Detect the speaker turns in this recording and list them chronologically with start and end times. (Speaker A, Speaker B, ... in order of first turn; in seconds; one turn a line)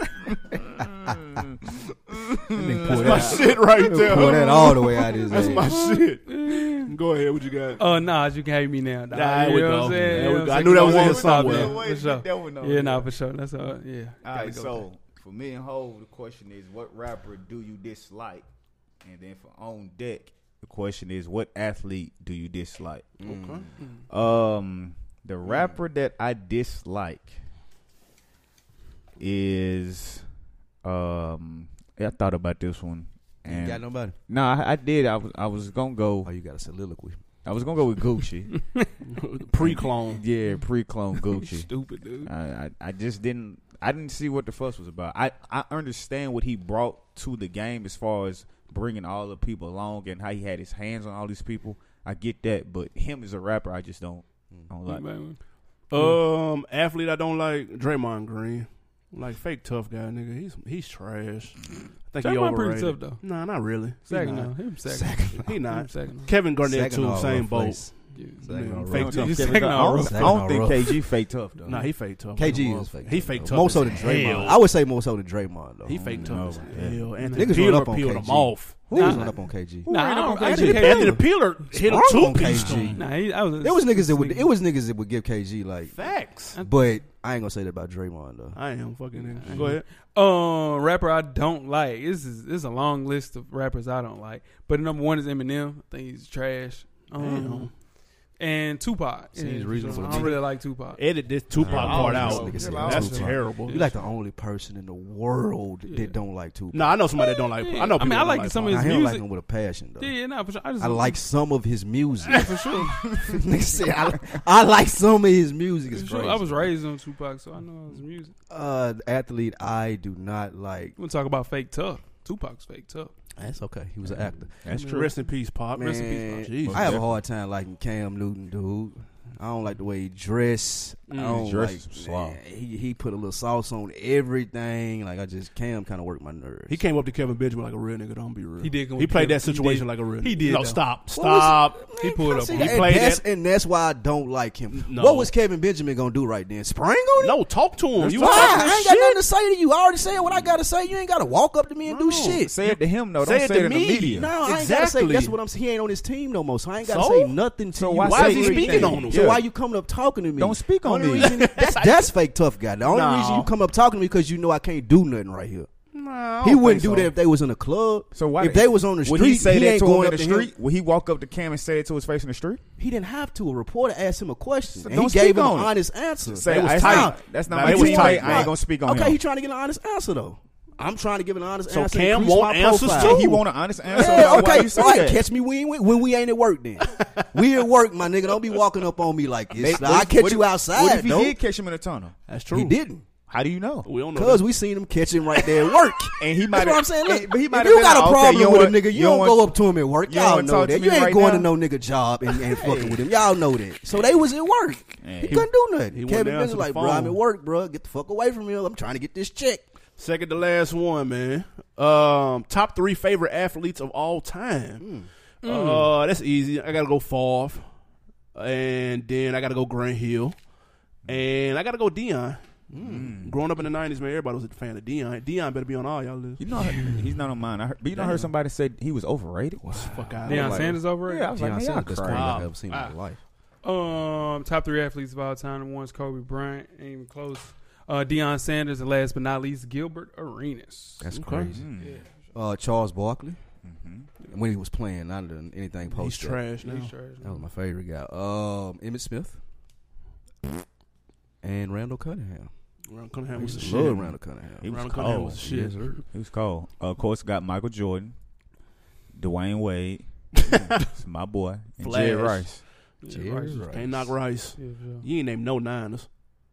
Speaker A: 0.3-5.5
Speaker B: 2.5-5.8
Speaker C: 2.9-7.8
Speaker D: 6.2-6.9
Speaker D: 7.8-14.8
Speaker C: 9.1-11.8
Speaker A: 10.1-13.1
Speaker A: 14.2-18.4
Speaker A: 19.0-23.2
Speaker B: 23.2-23.7
Speaker C: 23.2-23.6
Speaker A: 24.1-27.4
Speaker B: 25.4-25.7
Speaker A: 29.2-30.2
Speaker A: 30.8-36.3
Speaker B: 33.4-34.1
Speaker B: 36.2-37.2
Speaker A: 37.4-38.7
Speaker D: 38.5-38.9
Speaker C: 39.0-40.2
Speaker A: 39.6-41.7
Speaker D: 41.1-42.3
Speaker A: 42.2-55.1
Speaker D: 54.9-56.2
Speaker C: 55.9-64.4
Speaker D: 62.2-63.2
Speaker D: 64.0-66.3
Speaker B: 64.1-65.6
Speaker C: 65.4-69.8
Speaker B: 66.6-71.0
Speaker D: 68.1-70.7
Speaker A: 68.9-71.9
Speaker B: 71.6-83.1
Speaker C: 71.7-74.6
Speaker A: 72.4-74.6
Speaker C: 75.8-79.1
Speaker A: 76.0-77.5
Speaker D: 77.2-77.6
Speaker A: 78.9-81.1
Speaker D: 78.9-81.2
Speaker C: 80.5-83.0
Speaker D: 82.9-84.5
Speaker B: 83.6-88.6
Speaker C: 85.9-86.6
Speaker C: 88.5-89.8
Speaker D: 89.1-97.8
Speaker B: 89.4-89.8
Speaker C: 97.1-97.7
Speaker D: 98.4-101.0
Speaker B: 99.3-100.4
Speaker C: 100.0-100.4
Speaker C: 100.9-103.9
Speaker B: 101.5-107.1
Speaker A: 101.6-103.4
Speaker D: 103.7-104.0
Speaker D: 105.8-106.1
Speaker C: 106.7-109.0
Speaker D: 107.6-109.2
Speaker B: 108.6-110.1
Speaker D: 110.0-111.2
Speaker B: 110.8-116.7
Speaker D: 112.3-113.2
Speaker D: 115.9-118.3
Speaker B: 118.5-120.9
Speaker D: 121.0-123.1
Speaker B: 123.3-124.8
Speaker A: 124.6-125.1
Speaker C: 124.7-127.0
Speaker B: 125.7-136.8
Speaker A: 126.6-127.1
Speaker C: 131.1-131.4
Speaker A: 131.2-132.4
Speaker C: 136.7-141.8
Speaker D: 138.6-140.8
Speaker B: 141.1-147.4
Speaker D: 142.0-142.8
Speaker C: 142.5-143.2
Speaker C: 144.7-145.3
Speaker C: 147.2-149.2
Speaker B: 148.0-152.5
Speaker A: 148.0-148.6
Speaker C: 151.8-155.3
Speaker A: 152.4-154.3
Speaker B: 154.1-165.7
Speaker C: 156.8-157.4
Speaker A: 157.8-159.4
Speaker C: 158.0-159.4
Speaker A: 160.4-161.5
Speaker C: 160.8-162.1
Speaker C: 162.8-163.5
Speaker C: 165.9-167.1
Speaker B: 166.4-170.5
Speaker A: 168.1-172.6
Speaker B: 172.8-183.4
Speaker A: 174.7-175.8
Speaker A: 176.3-179.2
Speaker C: 176.4-178.5
Speaker C: 181.7-184.6
Speaker A: 182.9-185.2
Speaker B: 183.9-191.3
Speaker C: 186.9-187.2
Speaker A: 189.5-192.1
Speaker C: 192.3-192.8
Speaker B: 192.5-193.0
Speaker A: 193.3-193.9
Speaker C: 193.8-194.4
Speaker B: 194.1-209.6
Speaker A: 196.2-201.5
Speaker A: 202.3-203.0
Speaker A: 203.9-204.2
Speaker A: 205.0-205.4
Speaker C: 205.3-207.2
Speaker C: 210.0-214.9
Speaker B: 214.8-215.1
Speaker C: 215.4-217.7
Speaker D: 215.4-215.9
Speaker C: 218.3-220.4
Speaker C: 221.0-222.6
Speaker B: 222.7-223.2
Speaker A: 222.8-223.4
Speaker C: 223.2-226.4
Speaker A: 226.4-232.5
Speaker D: 226.6-227.1
Speaker C: 227.9-228.3
Speaker B: 229.6-233.2
Speaker C: 229.8-230.8
Speaker D: 230.2-231.3
Speaker C: 232.1-232.9
Speaker D: 233.6-241.1
Speaker B: 241.0-241.7
Speaker C: 241.1-241.5
Speaker A: 241.5-241.9
Speaker D: 241.8-242.1
Speaker B: 242.3-243.4
Speaker A: 243.6-244.1
Speaker B: 244.3-246.4
Speaker C: 245.9-246.9
Speaker D: 246.6-247.4
Speaker B: 247.2-249.4
Speaker B: 251.4-252.5
Speaker C: 252.9-255.8
Speaker B: 253.3-254.6
Speaker A: 254.6-255.4
Speaker B: 255.4-256.0
Speaker A: 256.0-258.1
Speaker A: 259.1-262.6
Speaker C: 261.8-262.6
Speaker D: 263.0-265.0
Speaker B: 263.1-264.1
Speaker C: 263.7-266.1